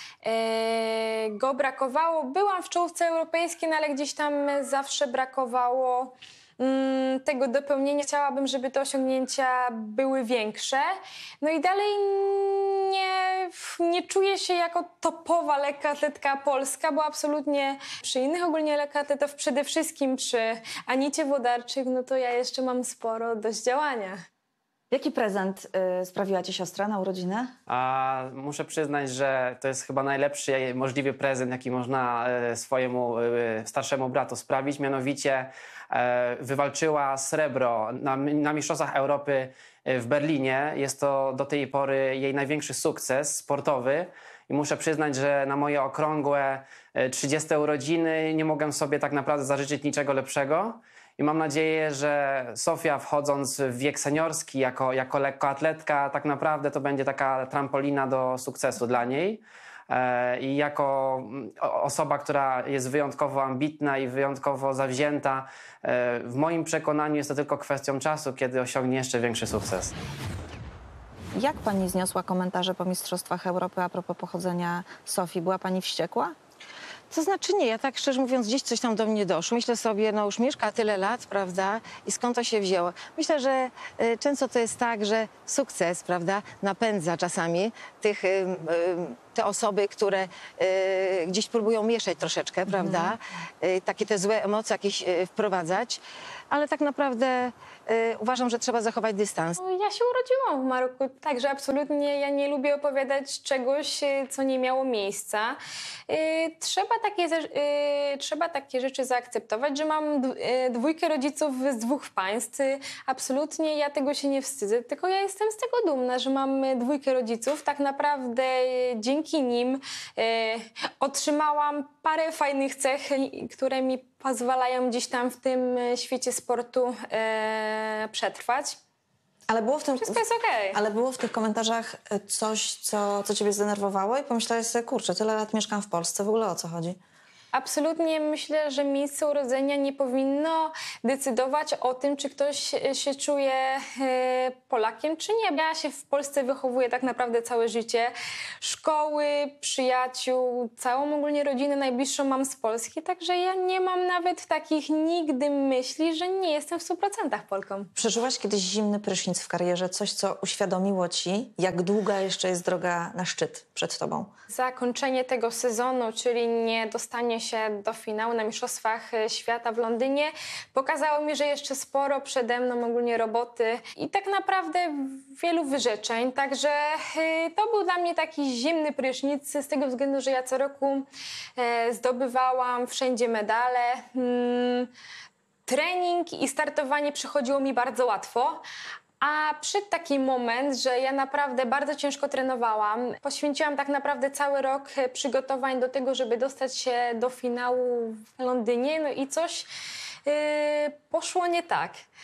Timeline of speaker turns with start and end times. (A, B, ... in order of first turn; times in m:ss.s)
0:00.2-0:24.2 A
0:24.9-0:27.6 B
0:27.7-1:09.9 C
1:11.4-1:16.4 B
1:17.1-1:39.6 D
1:39.6-2:08.8 A
2:09.5-2:10.2 B
2:10.0-2:10.8 A
2:10.7-2:17.0 B
2:17.5-2:37.9 A
2:38.0-2:44.3 B
2:44.5-3:04.9 A
3:05.7-3:08.6 A
3:09.2-3:19.7 A
3:20.2-3:22.0 A